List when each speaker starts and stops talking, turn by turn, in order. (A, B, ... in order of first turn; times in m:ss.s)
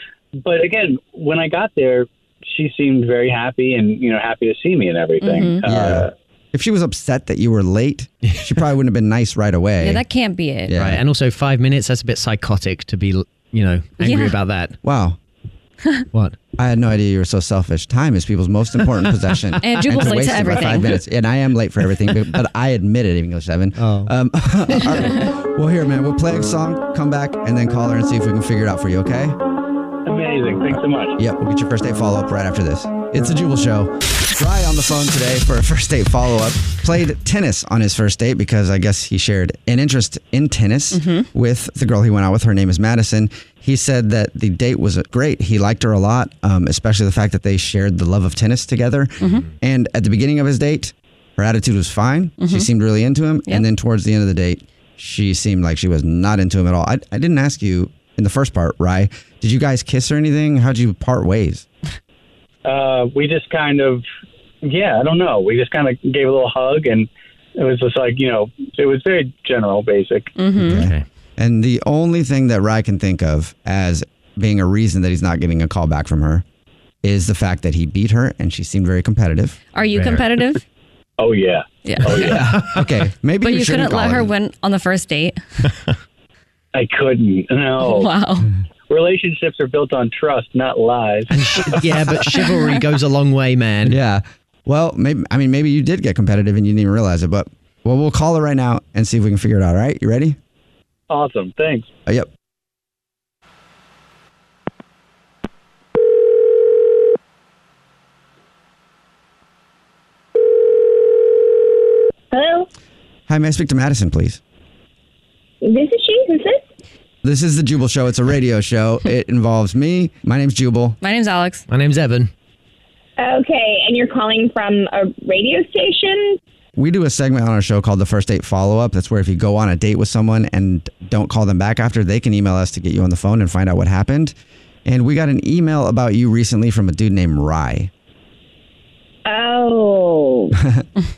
0:00.4-0:06.1 A
0:05.2-0:05.6 B
0:05.6-0:10.0 C
0:09.8-0:10.7 B
0:10.7-0:11.0 C
0:10.8-0:14.8 D
0:14.0-0:14.4 B
0:14.8-0:15.2 C
0:16.6-0:29.4 C
0:19.6-0:21.0 B
0:23.8-0:24.1 D
0:30.0-0:31.2 A
0:31.2-1:01.7 C
0:40.9-0:41.3 B
0:52.4-0:52.7 B
1:02.6-1:04.0 A
1:04.6-1:10.4 A
1:10.4-1:10.9 B
1:10.6-1:16.4 C
1:10.6-1:11.0 D
1:17.0-1:19.6 C
1:19.8-1:20.6 B
1:19.9-1:20.3 D
1:21.2-1:22.4 A
1:21.8-1:22.4 B
1:22.0-1:24.3 C
1:22.4-1:22.7 D
1:23.4-1:25.4 B
1:26.7-1:28.1 A
1:27.8-1:28.5 B
1:28.9-1:32.0 A
1:31.3-1:34.0 D
1:33.8-1:40.4 C
1:41.1-1:41.9 A
1:52.3-1:52.7 E
1:53.3-1:54.4 C
1:55.6-1:56.6 E
1:57.2-2:01.0 C
2:01.0-2:01.6 B
2:01.7-2:02.3 D
2:03.2-2:06.4 E
2:06.8-2:17.9 C
2:19.3-2:20.6 E
2:20.6-2:20.8 C